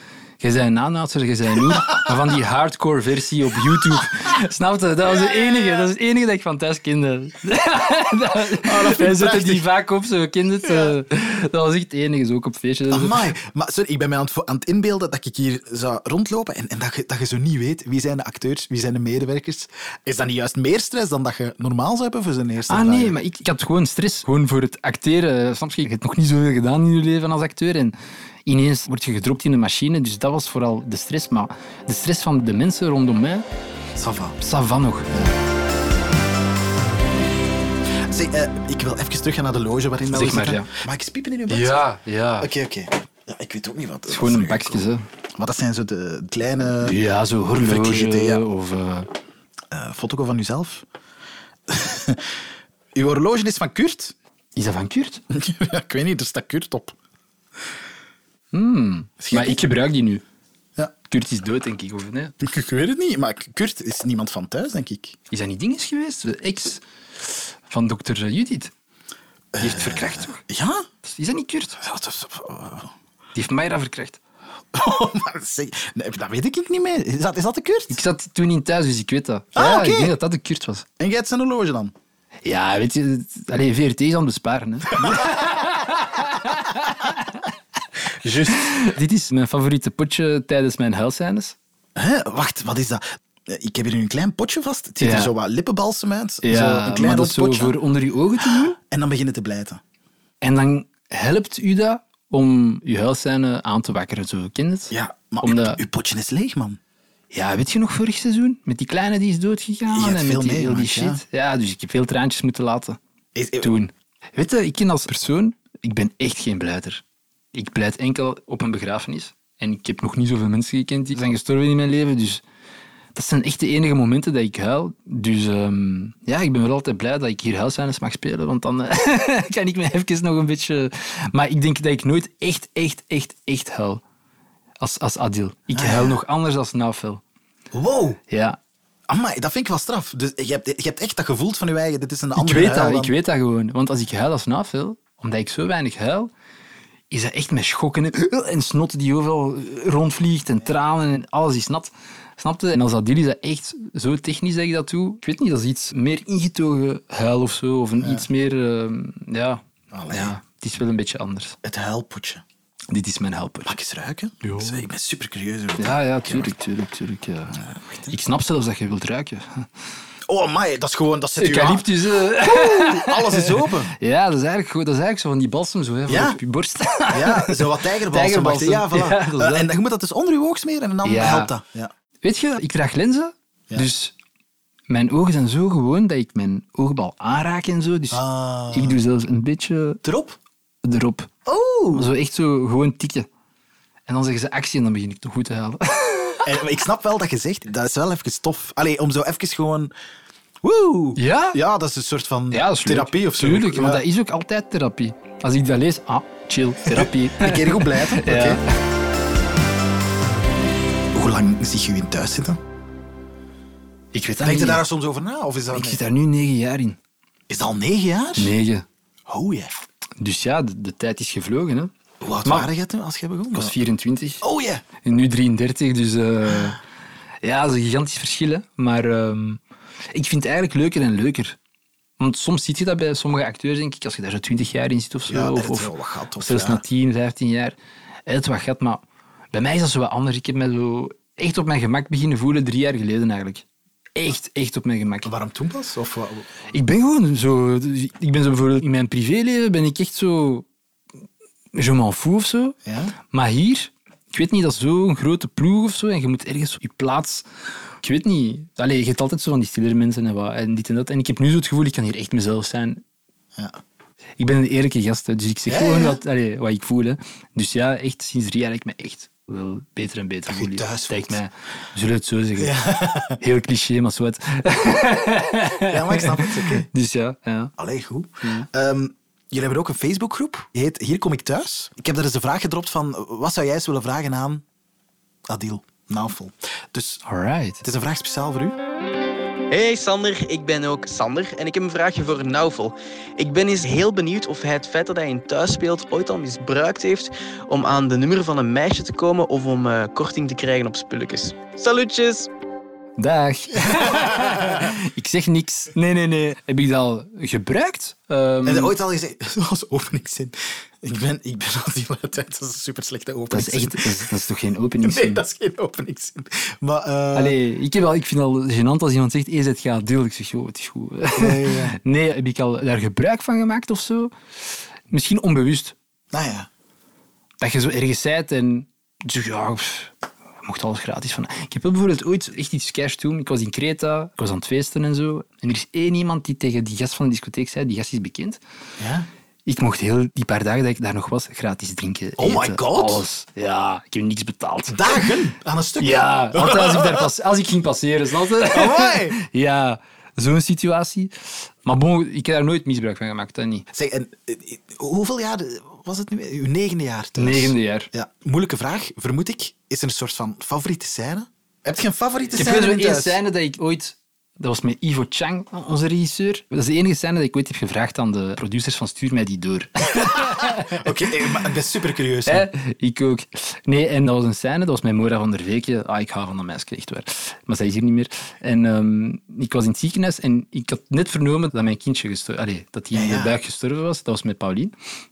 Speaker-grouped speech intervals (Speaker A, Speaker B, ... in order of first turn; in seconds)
Speaker A: 0.4-13.3, 22.7-33.5, 34.4-35.1, 40.0-40.7, 41.5-42.5, 44.1-45.0, 46.8-49.1, 54.5-55.2, 58.5-60.2, 61.1-62.3, 65.3-68.7, 69.6-70.4, 71.0-71.8, 73.3-74.2, 77.9-80.8, 82.4-87.3, 88.5-91.5, 95.0-95.3, 96.4-98.8, 100.4-105.8, 107.3-113.0, 113.6-122.4, 123.1-134.0, 134.8-137.2, 138.3-138.6, 142.3-146.3, 147.1-161.6, 162.9-163.7, 164.4-164.8, 165.8-169.7, 171.4-179.7, 181.0-181.5, 182.2-184.1, 184.9-190.0, 190.8-191.3, 191.9-193.3, 194.1-196.6, 201.2-201.6, 202.5-208.6, 214.1-214.8, 215.7-217.0, 218.4-218.8, 220.2-221.9, 222.4-222.7, 223.5-224.4, 225.0-226.8, 227.4-229.6, 230.1-231.6, 232.2-243.6, 244.2-245.3, 246.7-250.7, 251.7-257.4, 258.0-263.0, 264.4-272.8, 273.3-277.7, 278.4-278.7, 287.2-287.8, 303.2-308.9, 313.5-315.4, 317.3-324.3, 325.1-325.9, 327.6-338.6, 339.6-345.3, 346.0-353.9, 357.4-358.1, 362.5-371.1, 372.5-384.9
Speaker B: 8.6-9.6, 12.9-23.1, 34.0-34.4, 38.1-41.9, 42.4-46.9, 47.6-48.4, 49.7-50.8, 51.7-52.3, 52.9-54.1, 55.3-56.9, 59.2-59.6, 62.4-65.2, 69.5-70.9, 71.8-72.9, 74.7-78.0, 79.5-80.1, 81.0-81.9, 85.0-85.5, 88.2-88.8, 92.0-97.8, 98.8-99.8, 104.9-106.8, 109.9-111.2, 113.3-113.8, 135.7-136.2, 137.7-138.2, 139.1-143.1, 159.9-160.3, 161.6-162.4, 163.6-166.5, 167.6-168.1, 170.3-173.9, 176.1-176.4, 177.1-181.9, 188.1-189.0, 190.0-190.4, 191.4-192.1, 196.4-199.9, 200.6-204.0, 206.8-208.6, 211.1-212.6, 214.4-216.0, 217.5-218.5, 219.3-219.7, 222.2-223.7, 224.4-224.8, 235.3-236.8, 245.2-246.5, 252.8-253.2, 265.7-266.2, 270.5-271.4, 272.6-273.4, 275.9-276.9, 277.8-284.6, 285.5-287.2, 287.8-288.8, 303.8-304.8, 308.6-314.3, 315.0-317.6, 321.3-322.0, 326.3-326.7, 339.0-339.3, 342.4-343.2, 344.9-347.3, 348.6-349.4, 353.9-363.4, 370.5-372.7, 383.1-383.5
Speaker C: 289.7-302.5